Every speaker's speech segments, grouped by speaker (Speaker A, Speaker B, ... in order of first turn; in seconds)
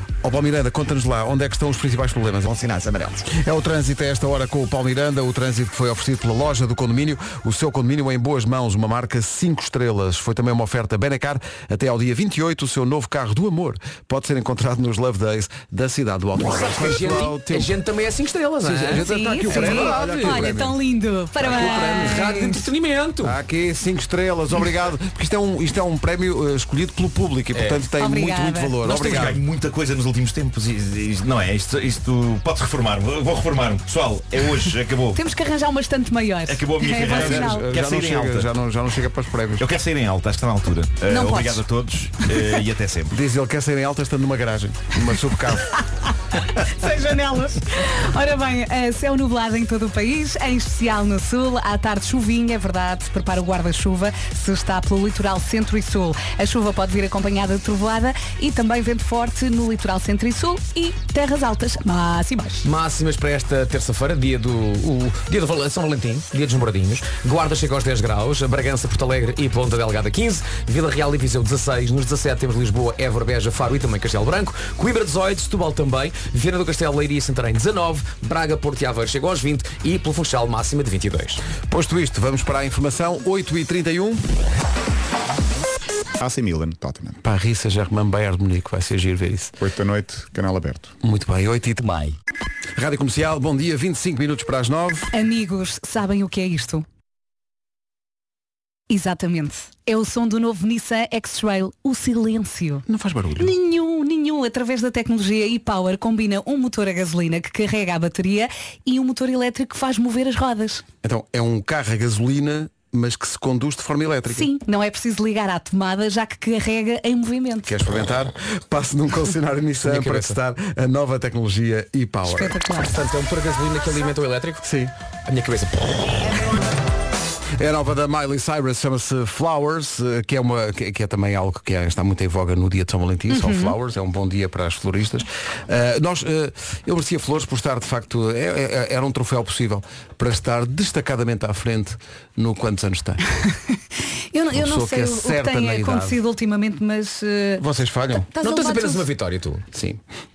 Speaker A: 0.2-2.5, 3.3-17.7, 18.6-20.8, 21.4-22.2, 23.2-29.4, 37.1-39.6, 43.1-45.8, 81.7-84.2, 87.2-89.5, 91.0-92.1, 92.8-95.1, 102.9-103.5, 111.0-114.5, 117.7-122.6, 124.6-124.9, 127.6-143.2, 144.5-146.2, 147.6-148.3, 149.7-150.0
Speaker B: 2.4-3.3, 86.2-87.2, 89.6-90.9
Speaker C: 16.4-20.6, 21.4-23.3, 27.5-27.8, 62.6-81.4, 119.8-120.4, 122.8-124.6, 125.3-126.5, 148.4-149.6
Speaker D: 18.9-22.7, 28.0-28.8, 35.1-37.7, 41.1-41.6, 46.5-62.6, 95.1-96.8, 98.9-102.8, 103.3-110.8, 114.3-117.7, 122.2-123.0, 133.3-133.7, 144.3-147.6, 148.3-149.1
Speaker E: 28.8-35.2, 36.5-38.5, 39.6-43.1